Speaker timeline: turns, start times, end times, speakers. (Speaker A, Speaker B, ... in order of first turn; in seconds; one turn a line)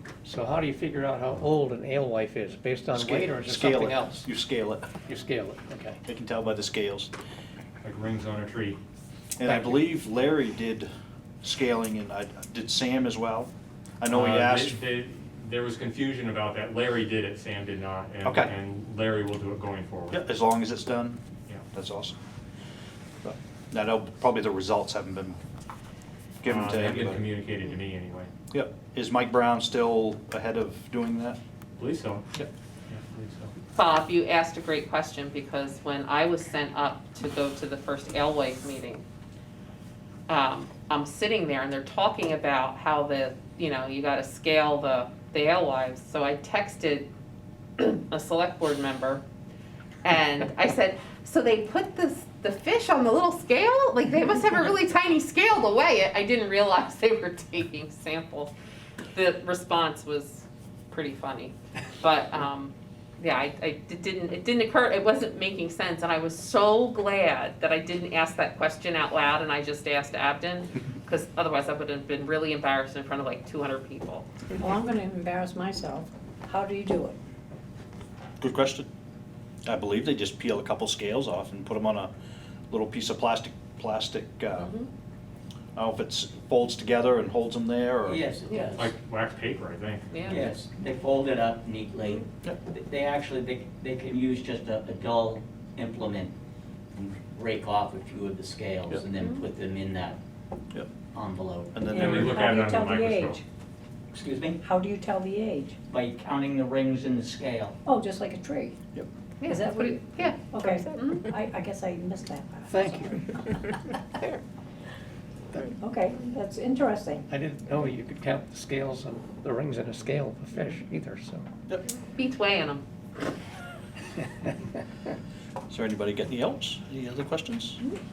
Speaker A: 0.2-4.3
Speaker B: 2.9-4.9
Speaker A: 5.0-6.0
Speaker B: 6.0-7.1
Speaker C: 7.8-8.8
Speaker B: 9.4-10.9
Speaker A: 9.4-9.8
Speaker B: 11.4-14.8
Speaker C: 14.1-20.2
Speaker B: 18.2-18.5
Speaker B: 20.1-21.2
Speaker B: 21.7-22.1
Speaker B: 23.2-25.4
Speaker B: 26.4-27.2
Speaker C: 26.4-28.3
Speaker B: 28.5-31.4
Speaker C: 31.8-33.5
Speaker D: 33.7-39.0
Speaker D: 40.3-47.1
Speaker D: 47.8-49.2
Speaker D: 50.0-58.5
Speaker D: 59.1-74.3
Speaker E: 74.5-77.2
Speaker B: 78.4-78.9
Speaker B: 79.7-82.1
Speaker B: 82.7-84.7
Speaker D: 84.6-84.9
Speaker B: 85.8-88.2
Speaker F: 88.0-88.9
Speaker C: 88.7-90.5
Speaker D: 90.1-90.4
Speaker F: 90.2-96.3
Speaker F: 96.9-100.2
Speaker F: 101.1-101.8
Speaker B: 101.7-102.4
Speaker E: 101.9-103.4
Speaker C: 101.9-103.4
Speaker F: 104.1-104.6
Speaker E: 104.6-105.8
Speaker F: 105.9-107.8
Speaker E: 107.8-108.8
Speaker D: 109.4-111.3
Speaker E: 109.5-113.4
Speaker A: 112.7-113.3
Speaker E: 115.8-117.3
Speaker A: 117.3-121.5
Speaker D: 122.1-122.8
Speaker B: 125.7-127.8